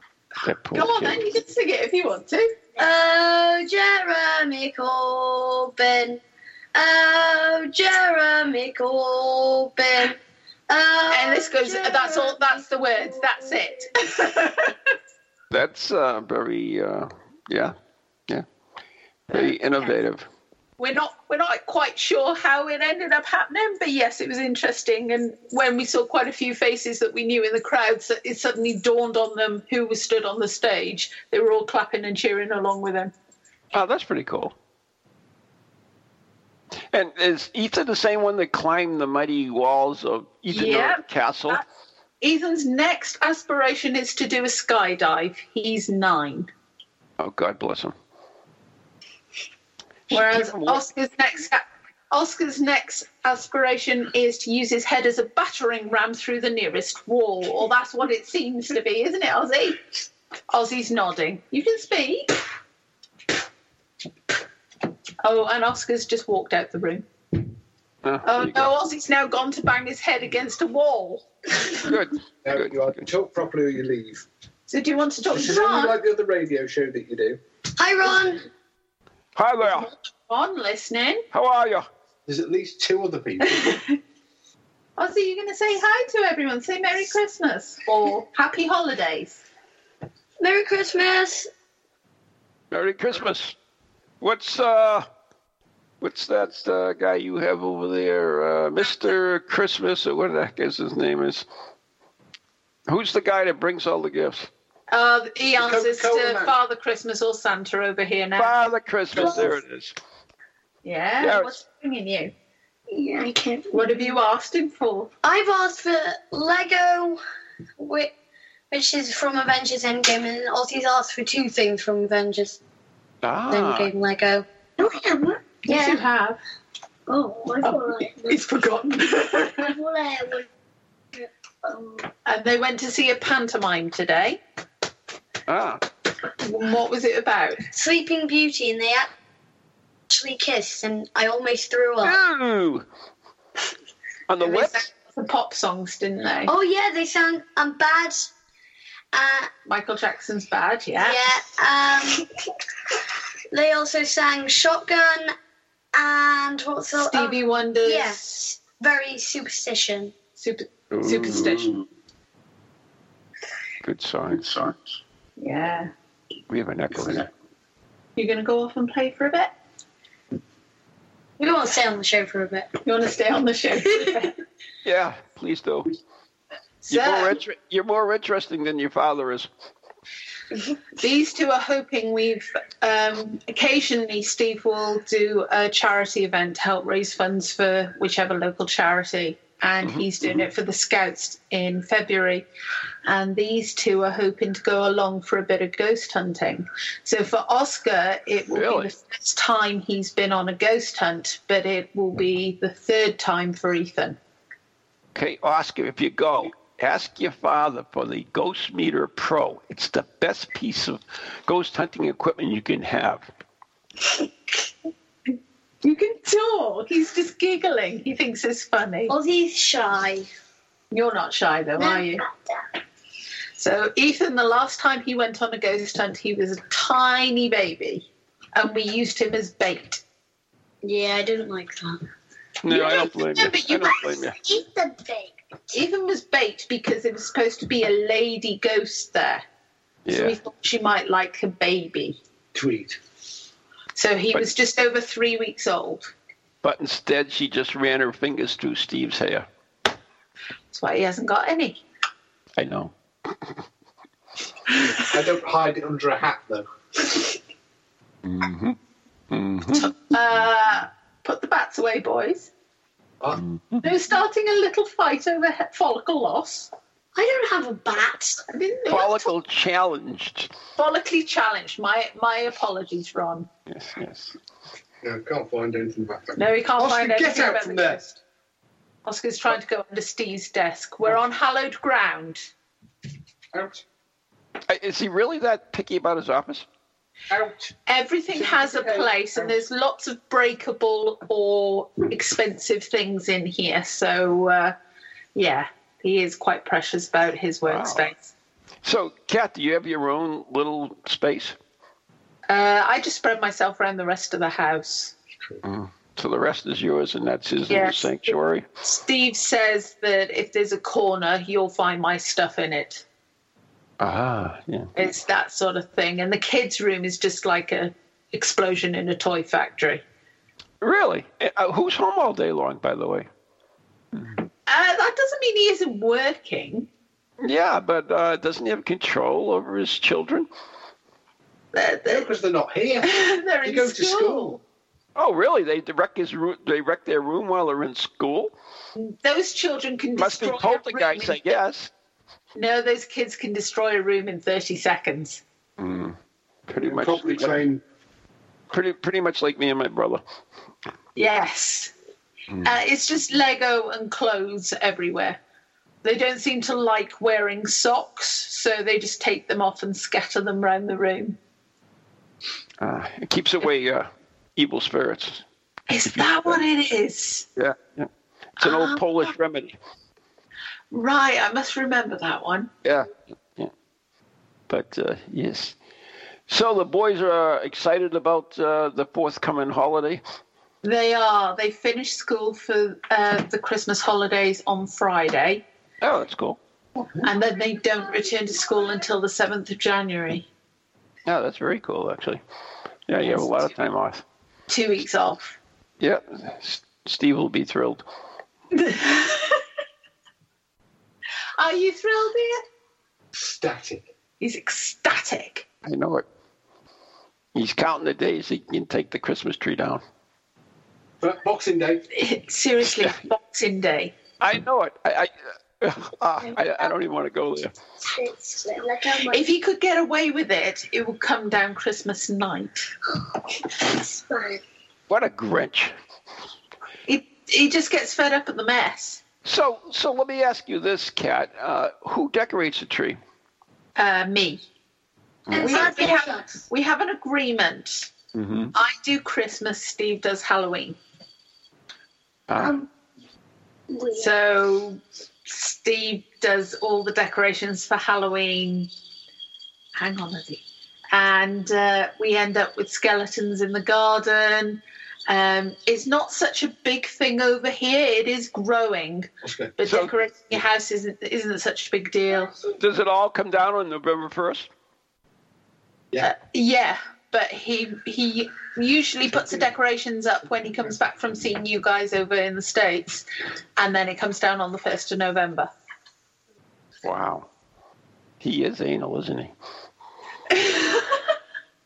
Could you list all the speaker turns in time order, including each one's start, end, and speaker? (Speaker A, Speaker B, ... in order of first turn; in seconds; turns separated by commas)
Speaker A: 0.4-1.2, Speaker B: 0.7-2.5, Speaker C: 2.8-6.2, Speaker C: 6.7-10.2, Speaker C: 10.7-13.9, Speaker B: 11.1-14.8, Speaker A: 15.5-17.7, Speaker A: 19.3-20.2, Speaker B: 20.8-33.1, Speaker A: 33.7-34.5, Speaker A: 36.9-41.6, Speaker B: 40.5-41.6, Speaker B: 42.2-46.5, Speaker A: 47.2-47.9, Speaker A: 50.1-50.8, Speaker B: 50.1-59.8, Speaker B: 60.5-62.4, Speaker B: 65.2-67.1, Speaker A: 68.0-68.7, Speaker B: 68.2-71.9, Speaker A: 71.8-73.0, Speaker D: 72.4-74.3, Speaker B: 74.7-76.0, Speaker D: 75.3-77.4, Speaker C: 77.8-78.4, Speaker A: 79.4-79.9, Speaker B: 79.6-81.2, Speaker A: 81.3-81.9, Speaker D: 82.3-83.7, Speaker B: 83.6-83.9, Speaker B: 85.0-89.4, Speaker C: 90.4-91.5, Speaker A: 92.7-93.5, Speaker A: 94.2-95.0, Speaker A: 96.0-101.5, Speaker A: 102.9-104.5, Speaker B: 104.9-108.5, Speaker D: 105.6-106.6, Speaker A: 108.4-110.0, Speaker D: 109.2-109.5, Speaker C: 109.2-109.5, Speaker B: 110.8-112.3, Speaker A: 111.2-111.6, Speaker C: 112.9-114.2, Speaker B: 113.7-115.1, Speaker C: 115.2-117.2, Speaker C: 117.8-118.1, Speaker C: 118.7-122.6, Speaker A: 123.2-123.9, Speaker C: 123.5-126.0, Speaker B: 125.7-126.4, Speaker C: 127.1-128.4, Speaker B: 127.6-129.7, Speaker C: 129.6-130.5, Speaker C: 131.2-132.1, Speaker B: 132.2-134.4, Speaker A: 135.5-135.8, Speaker B: 136.4-137.6, Speaker C: 137.7-139.1, Speaker C: 140.1-142.2, Speaker A: 142.0-142.8, Speaker A: 144.3-144.8, Speaker B: 144.4-146.5, Speaker C: 146.5-148.3, Speaker C: 149.1-149.5, Speaker B: 149.7-151.3, Speaker C: 151.0-152.3, Speaker C: 153.5-155.3, Speaker C: 155.9-160.2, Speaker B: 157.0-158.4, Speaker B: 160.4-161.8, Speaker A: 160.9-161.8, Speaker A: 163.8-164.7, Speaker B: 165.4-165.9, Speaker A: 166.5-167.3, Speaker B: 168.2-169.5, Speaker C: 171.4-172.7, Speaker B: 172.8-174.4, Speaker A: 174.8-175.9, Speaker B: 176.8-177.4, Speaker A: 176.9-179.5, Speaker B: 181.0-192.5, Speaker A: 189.8-190.5, Speaker B: 193.1-204.2, Speaker A: 198.5-198.9, Speaker A: 205.2-213.3, Speaker B: 215.8-219.2, Speaker C: 219.1-220.3, Speaker B: 220.9-222.2, Speaker C: 221.8-222.6, Speaker B: 223.6-230.0, Speaker C: 230.8-232.0, Speaker A: 232.6-234.4, Speaker B: 232.7-233.9, Speaker C: 232.8-233.1, Speaker C: 233.7-235.4, Speaker B: 235.7-239.4, Speaker A: 240.1-240.4, Speaker B: 240.1-242.2, Speaker D: 242.5-243.0, Speaker B: 243.9-246.1, Speaker A: 246.6-249.5, Speaker B: 250.7-251.8, Speaker A: 252.6-253.5, Speaker D: 254.9-256.7, Speaker A: 258.2-258.8, Speaker A: 259.3-259.9, Speaker B: 259.7-262.5, Speaker A: 263.4-263.8, Speaker B: 263.8-266.7, Speaker C: 267.1-268.4, Speaker B: 268.5-269.3, Speaker A: 268.9-270.5, Speaker B: 270.8-273.5, Speaker A: 273.7-274.4, Speaker D: 275.0-278.0, Speaker B: 276.4-278.2, Speaker B: 279.1-282.5, Speaker D: 283.5-283.8, Speaker A: 284.7-286.7, Speaker D: 287.3-287.8, Speaker B: 287.9-294.8, Speaker D: 288.3-289.6, Speaker B: 295.4-298.3, Speaker A: 297.7-298.1, Speaker A: 298.8-301.6, Speaker B: 302.5-305.1, Speaker A: 305.6-308.6, Speaker B: 307.7-313.0, Speaker A: 314.0-314.9, Speaker B: 315.0-320.0, Speaker A: 320.8-323.3, Speaker A: 324.1-324.4, Speaker B: 324.7-326.9, Speaker A: 327.4-330.5, Speaker B: 331.7-332.3, Speaker D: 332.1-334.6, Speaker B: 333.0-334.6, Speaker A: 335.2-338.5, Speaker B: 339.0-341.4, Speaker A: 340.2-341.9, Speaker B: 342.6-345.4, Speaker A: 345.8-346.2, Speaker A: 346.7-347.6, Speaker D: 346.8-347.8, Speaker A: 348.7-350.2, Speaker B: 351.2-351.9, Speaker B: 352.6-355.4, Speaker B: 356.0-361.4, Speaker A: 362.8-365.4, Speaker B: 365.9-367.5, Speaker A: 366.1-366.6, Speaker A: 367.6-368.1, Speaker B: 368.6-369.3, Speaker A: 368.6-369.8, Speaker B: 370.9-372.7, Speaker A: 372.8-373.7, Speaker A: 374.7-375.8, Speaker A: 376.5-380.2, Speaker B: 380.8-385.6, Speaker A: 386.0-386.6, Speaker B: 387.2-390.5, Speaker A: 391.3-392.4, Speaker A: 393.1-394.2, Speaker B: 394.7-395.6, Speaker A: 396.0-398.0, Speaker B: 398.7-399.6, Speaker B: 401.6-402.6, Speaker D: 403.4-404.1, Speaker B: 404.4-405.7, Speaker A: 405.9-406.2, Speaker A: 407.6-410.0, Speaker D: 411.2-412.1, Speaker B: 412.1-414.1, Speaker A: 414.4-415.3, Speaker A: 415.8-417.7, Speaker C: 418.0-419.4, Speaker B: 419.3-422.9, Speaker C: 423.6-424.6, Speaker A: 425.1-425.9, Speaker B: 427.1-429.2, Speaker A: 429.4-433.2, Speaker B: 434.0-434.6, Speaker A: 435.5-436.1, Speaker C: 435.5-436.6, Speaker B: 435.6-438.1, Speaker A: 438.4-438.7, Speaker B: 438.7-441.0, Speaker A: 442.5-442.8, Speaker C: 442.6-442.9, Speaker C: 443.9-444.3, Speaker B: 444.2-448.9, Speaker B: 450.0-462.6, Speaker D: 459.4-459.7, Speaker A: 459.9-460.1, Speaker A: 462.8-464.7, Speaker B: 466.2-473.2, Speaker B: 473.8-475.7, Speaker A: 477.0-477.5, Speaker A: 478.4-479.5, Speaker B: 480.5-481.2